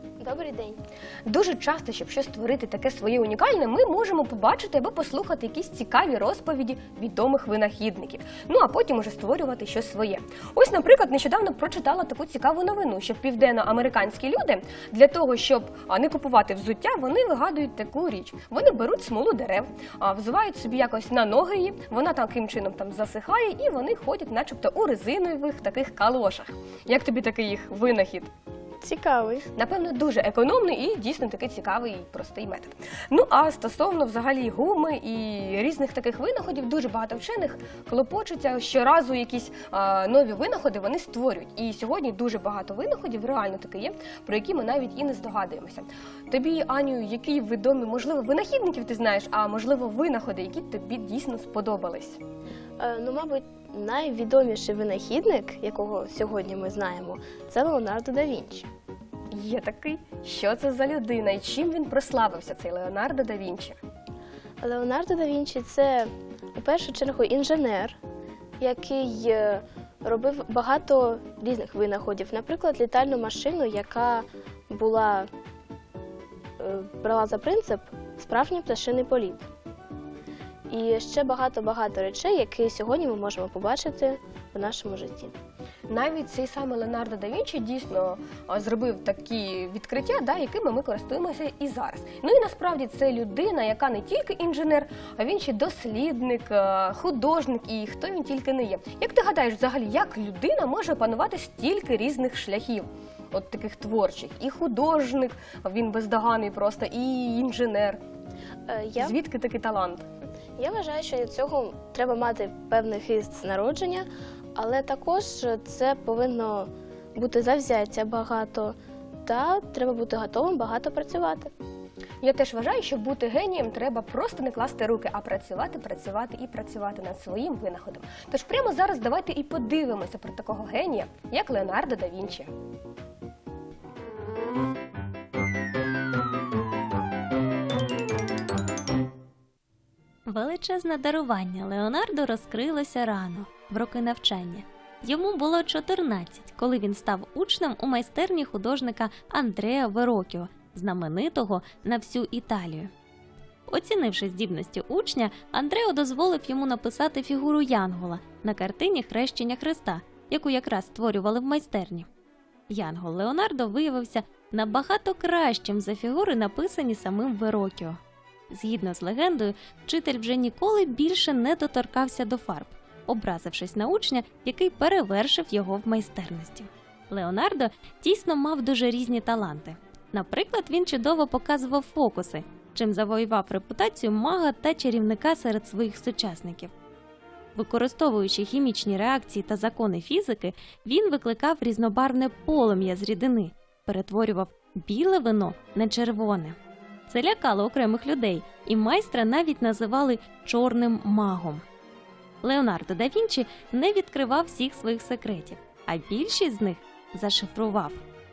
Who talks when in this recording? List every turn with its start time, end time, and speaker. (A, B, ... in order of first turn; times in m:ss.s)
0:00.2-0:00.8 A
0:01.2-0:28.3 B
0:28.8-0:29.5 A
0:29.5-0:52.2 B
0:52.8-0:58.7 A
0:59.3-1:03.8 B
1:04.6-1:08.0 A
1:08.6-1:15.3 A
1:16.6-1:19.4 A
1:20.7-1:25.3 A
1:25.9-1:48.0 B
1:48.7-1:49.2 A
1:49.0-1:50.0 B
1:50.6-2:01.5 A
2:02.2-2:12.5 B
2:20.2-2:32.9 C
2:33.7-2:42.1 C
2:42.7-2:48.0 C
2:48.5-3:06.7 C
3:07.5-3:16.6 C
3:17.1-3:21.6 C
3:22.4-3:28.0 C